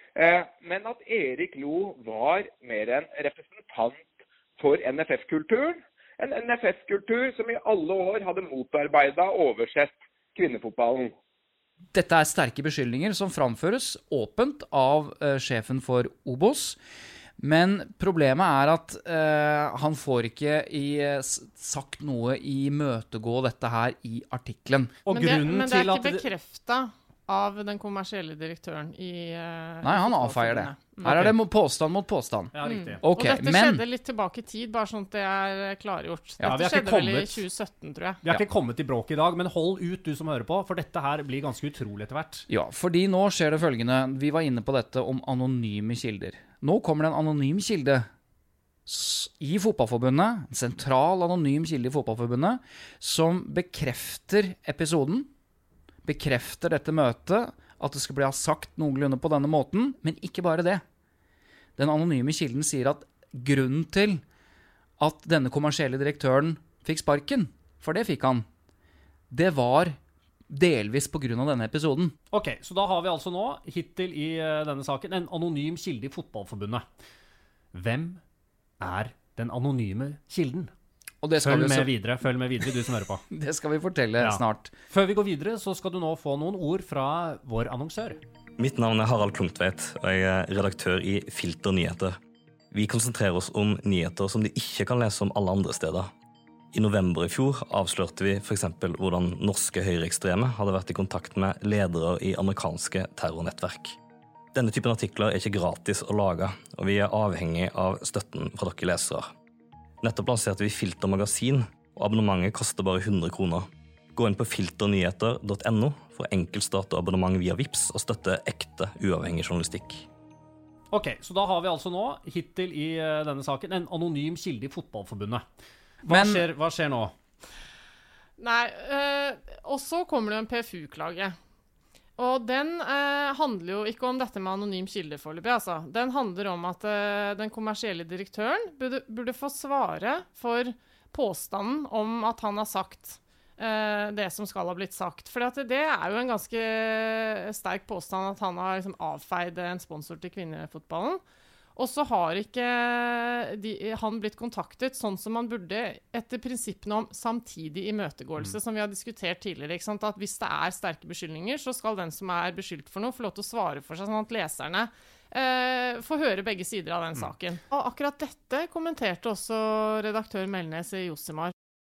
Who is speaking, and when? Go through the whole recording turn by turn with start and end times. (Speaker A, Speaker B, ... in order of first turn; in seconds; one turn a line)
Speaker A: 0.1-4.0
Speaker A: 4.6-11.1
Speaker B: 11.9-16.8
Speaker B: 17.4-24.9
Speaker C: 25.0-26.2
Speaker D: 25.1-31.2
Speaker B: 29.8-33.8
Speaker C: 31.0-31.4
Speaker C: 32.5-33.0
Speaker D: 32.6-38.2
Speaker C: 36.5-37.4
Speaker C: 38.2-42.5
Speaker B: 42.5-48.1
Speaker B: 48.9-55.3
Speaker B: 56.0-60.8
Speaker B: 61.8-64.2
Speaker B: 65.0-68.5
Speaker B: 69.3-70.0
Speaker B: 70.5-72.2
Speaker C: 72.3-76.8
Speaker C: 77.7-78.2
Speaker C: 78.8-80.7
Speaker B: 81.2-81.9
Speaker C: 81.4-83.2
Speaker B: 83.3-84.7
Speaker C: 84.2-88.2
Speaker E: 88.6-92.2
Speaker E: 92.7-96.1
Speaker E: 96.7-104.0
Speaker E: 104.5-109.3
Speaker E: 110.0-120.0
Speaker C: 120.9-125.4
Speaker C: 126.0-127.1
Speaker B: 126.0-126.4
Speaker D: 128.4-131.3
Speaker D: 132.2-151.2
Speaker D: 151.8-171.5